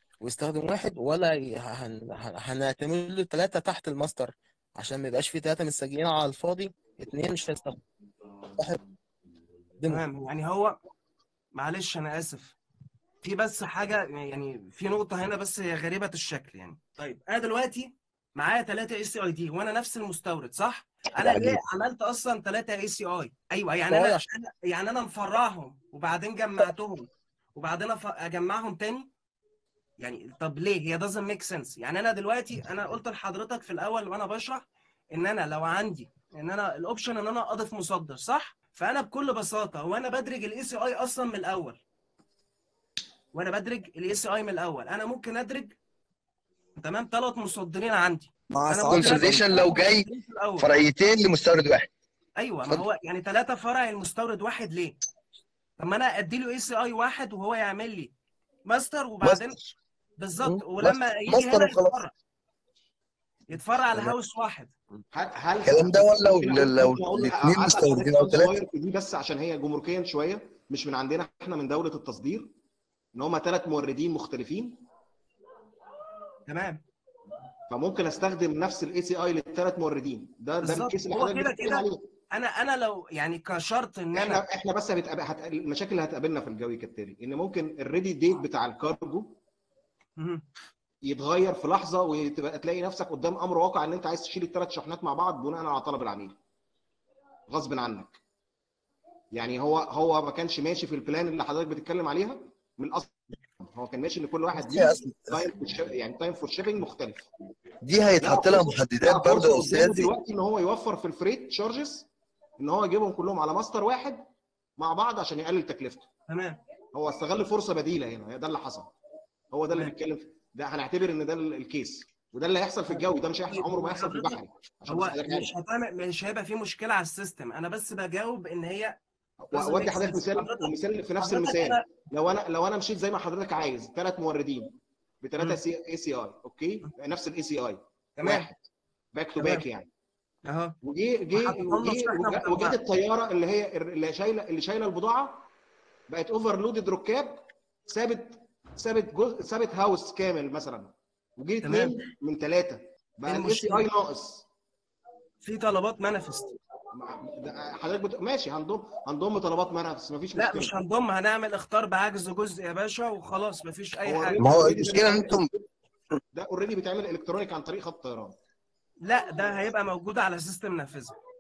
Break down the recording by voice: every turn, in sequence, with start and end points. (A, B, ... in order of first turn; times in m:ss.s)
0:00.2-0:07.8 A
0:09.8-0:10.1 A
0:09.9-0:10.8 B
0:11.6-0:12.6 B
0:13.2-0:29.1 B
0:21.2-0:21.6 A
0:23.9-0:24.3 A
0:30.0-0:41.8 B
0:43.3-0:45.8 B
0:46.8-0:50.7 B
0:48.5-0:50.1 C
0:50.6-0:51.9 C
0:52.4-0:55.0 B
0:55.8-0:58.1 B
0:58.7-0:59.6 B
0:59.2-0:59.7 C
1:00.2-1:02.1 B
1:00.4-1:02.0 C
1:03.5-1:04.7 B
1:05.1-1:12.5 D
1:05.6-1:08.5 C
1:13.2-1:14.8 D
1:16.5-1:16.8 B
1:17.7-1:22.0 D
1:20.6-1:24.4 B
1:24.1-1:29.4 D
1:30.2-1:30.4 B
1:31.0-1:36.4 D
1:37.5-1:38.2 D
1:39.3-1:47.3 D
1:44.5-1:45.6 C
1:47.8-1:50.1 C
1:48.2-1:56.1 D
1:56.3-1:56.6 B
1:56.9-1:58.9 D
1:59.5-2:05.5 D
2:02.9-2:09.0 B
2:09.4-2:18.6 D
2:09.5-2:11.8 B
2:18.2-2:18.5 B
2:19.1-2:19.9 D
2:19.4-2:19.6 B
2:20.5-2:20.8 B
2:20.8-2:25.5 D
2:21.4-2:22.8 B
2:26.1-2:34.5 D
2:31.6-2:32.0 B
2:33.3-2:33.9 B
2:35.4-2:36.6 B
2:36.9-2:40.8 D
2:40.4-2:45.2 B
2:44.0-2:45.4 D
2:44.4-2:45.6 C
2:46.3-2:48.4 D
2:49.0-2:51.2 B